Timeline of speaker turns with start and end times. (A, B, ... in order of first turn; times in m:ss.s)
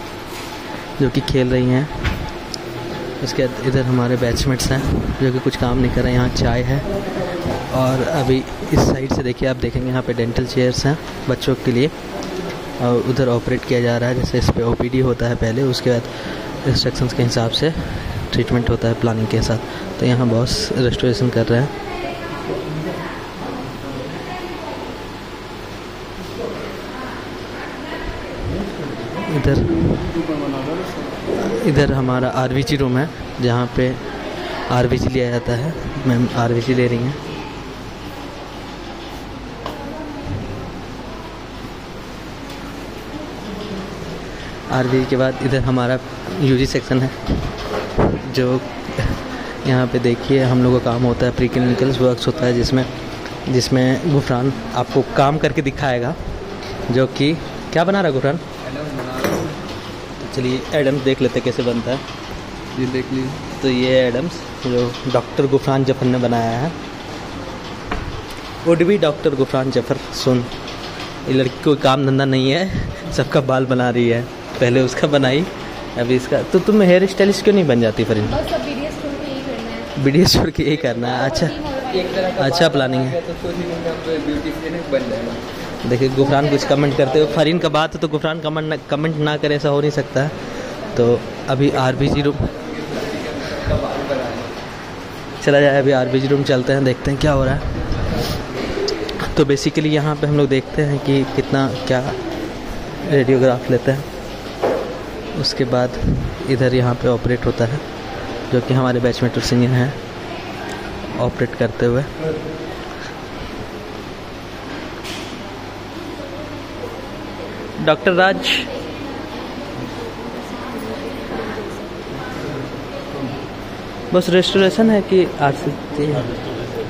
0:01.0-0:02.4 A
0:03.2-0:12.1 A
0:12.8-0:21.7 A
0:29.3-0:30.2 A
0:31.3-0:37.2 A
0:44.7-0:52.9 A
0:53.4-0:56.2 A
0:56.9-0:58.4 A
0:58.6-0:59.6 B
1:00.2-1:02.0 A
1:02.7-1:03.4 B
1:03.5-1:06.8 A
1:08.6-1:10.6 A
1:11.2-1:18.6 A
1:18.5-1:19.9 C
1:19.9-1:23.2 A
1:22.0-1:25.4 B
1:25.8-1:32.6 A
1:32.6-1:34.5 B
1:35.4-1:38.0 A
1:39.3-1:42.2 A
1:42.9-1:44.1 A
1:45.3-1:47.8 A
1:48.5-1:50.0 A
1:51.1-1:52.1 A
1:57.8-1:58.7 A
2:00.4-2:01.8 C
2:04.1-2:06.5 A